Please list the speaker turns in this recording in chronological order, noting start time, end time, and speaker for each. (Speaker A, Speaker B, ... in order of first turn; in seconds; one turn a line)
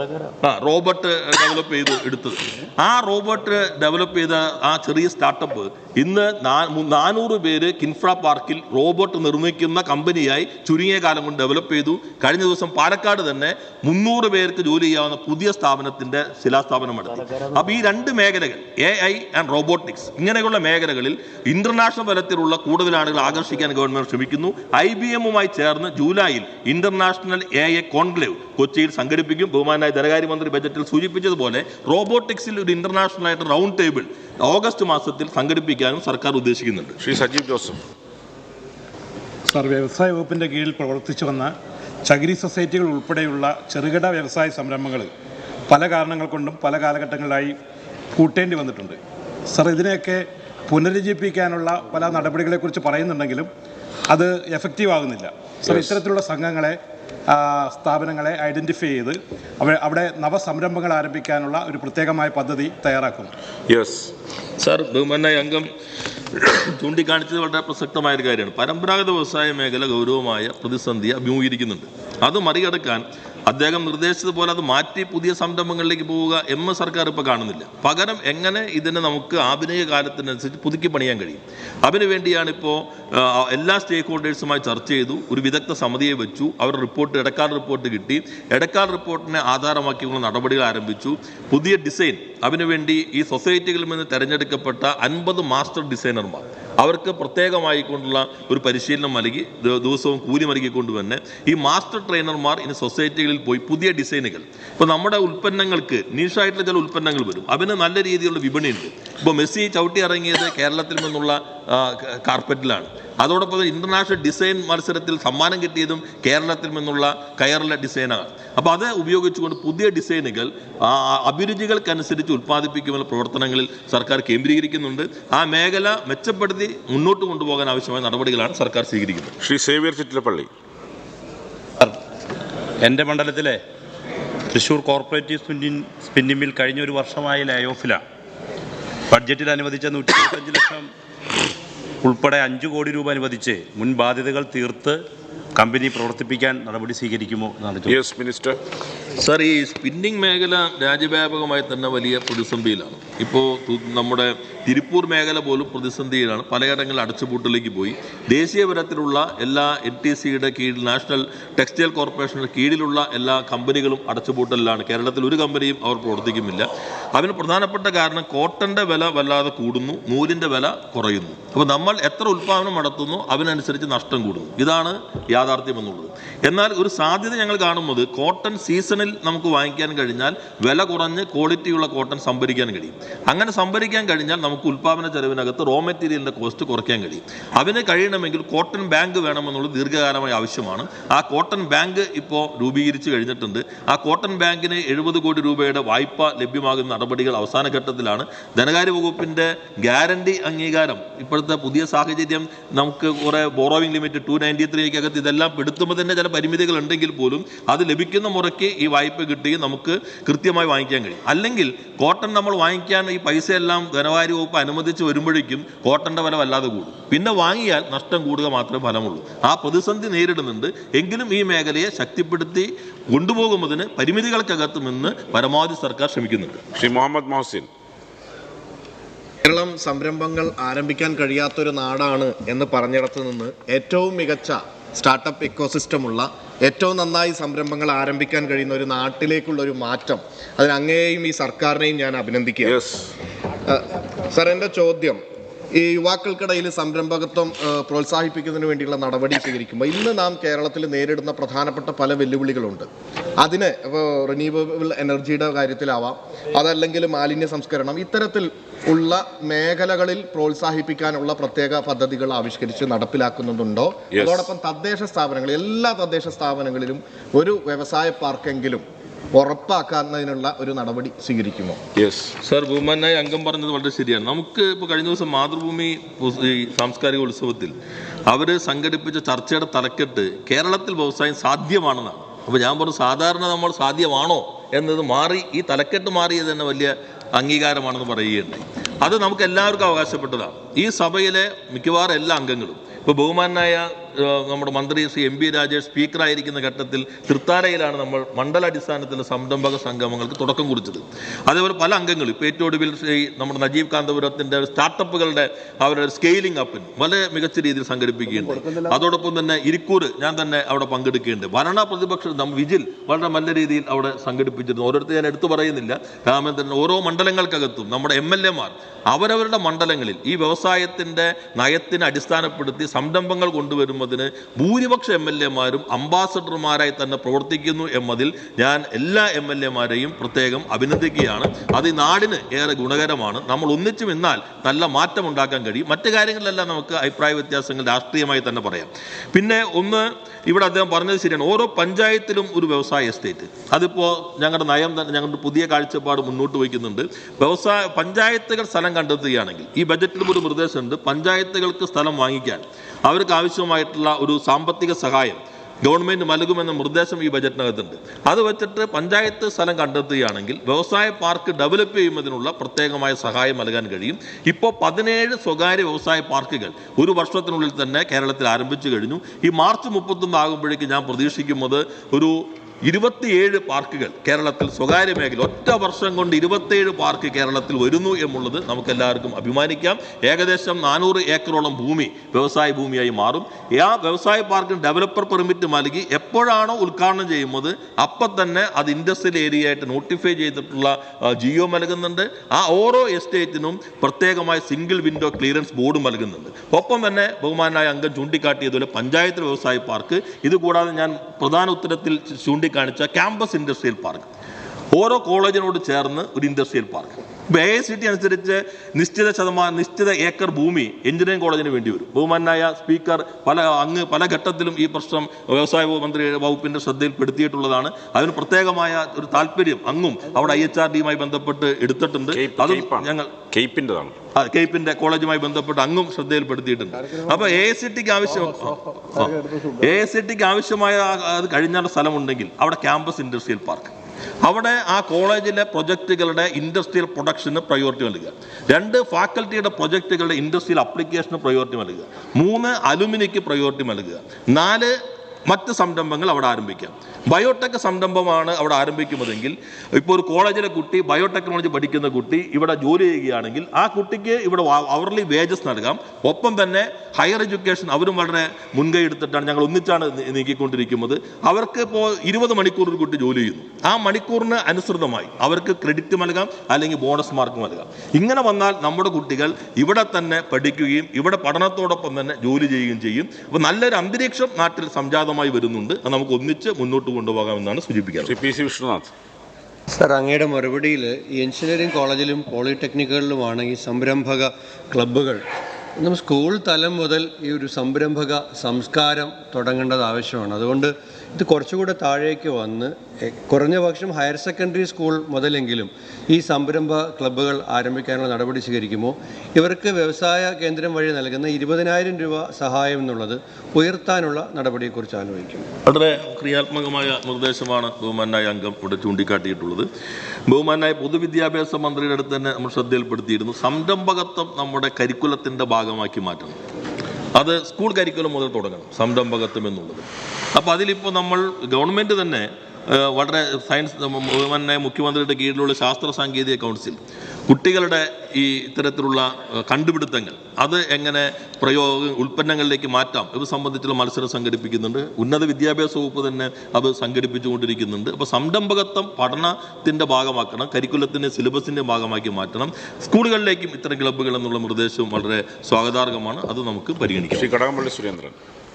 Speaker A: 0.4-37.0
Speaker B: 37.0-37.8
Speaker C: 39.5-41.5
Speaker C: 42.1-45.1
Speaker C: 45.7-47.5
Speaker C: 48.1-49.0
Speaker C: 49.5-53.5
Speaker C: 54.1-56.8
Speaker C: 57.3-63.3
Speaker B: 63.7-64.1
Speaker A: 64.6-65.7
Speaker A: 66.3-129.3
Speaker B: 129.4-130.5
Speaker D: 132.8-133.6
Speaker D: 134.5-138.0
Speaker D: 139.1-140.9
Speaker D: 142.0-145.0
Speaker D: 145.6-148.0
Speaker B: 147.9-148.6
Speaker A: 149.2-226.6
Speaker B: 226.8-227.7
Speaker E: 229.4-242.8
Speaker B: 242.6-243.1
Speaker E: 243.7-245.2
Speaker E: 245.7-252.9
Speaker E: 253.4-271.8
Speaker B: 264.1-264.5
Speaker B: 272.0-272.3
Speaker A: 272.4-277.8
Speaker A: 278.3-404.3
Speaker A: 404.9-423.3
Speaker B: 422.3-424.2
Speaker A: 424.4-444.9
Speaker A: 445.5-478.4
Speaker B: 478.2-479.1
Speaker F: 480.0-485.4
Speaker F: 486.0-505.7
Speaker A: 505.9-509.9
Speaker A: 510.5-516.6
Speaker A: 517.4-547.6
Speaker B: 547.3-548.4